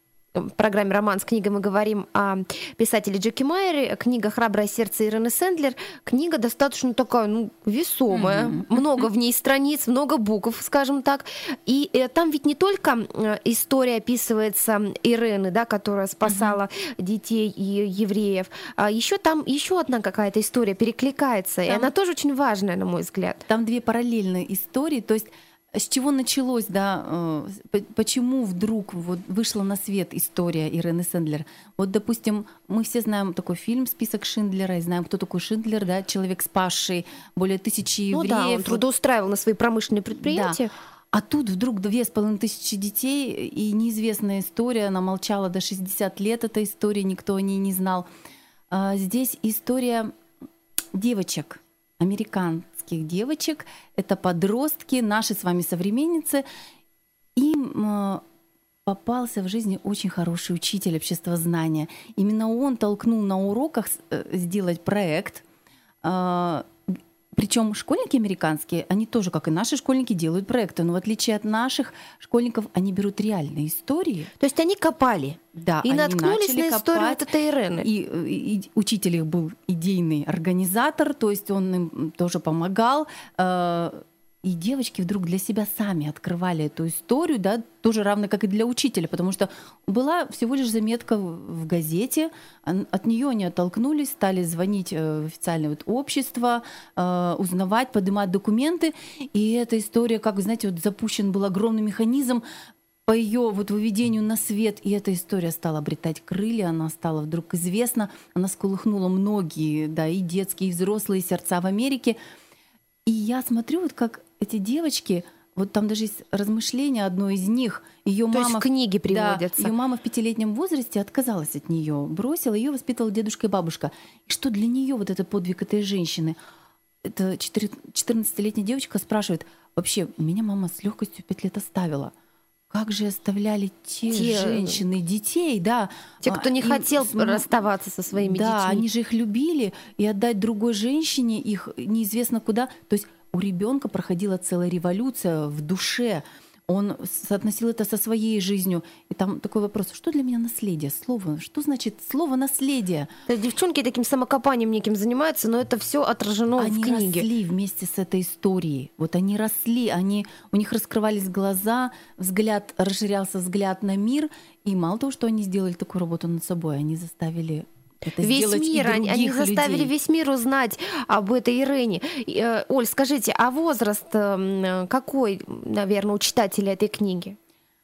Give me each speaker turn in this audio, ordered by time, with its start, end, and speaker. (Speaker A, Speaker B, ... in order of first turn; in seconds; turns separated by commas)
Speaker A: 0.3-23.4, Speaker B: 8.1-9.1, Speaker B: 16.2-16.6, Speaker B: 21.7-21.9, Speaker B: 23.5-38.9, Speaker A: 38.1-40.7, Speaker B: 40.2-48.1, Speaker B: 48.7-50.1, Speaker B: 50.9-56.5, Speaker B: 57.4-58.2, Speaker B: 58.9-65.4, Speaker B: 66.0-66.7, Speaker B: 67.3-74.3, Speaker A: 74.4-77.9, Speaker B: 75.5-102.4, Speaker B: 103.1-112.2, Speaker B: 113.1-126.4, Speaker A: 118.3-119.7, Speaker B: 127.0-132.1, Speaker B: 132.7-137.5, Speaker A: 134.1-134.8, Speaker A: 136.2-138.9, Speaker B: 138.1-153.1, Speaker A: 153.3-157.3, Speaker B: 156.6-169.9, Speaker A: 168.2-177.4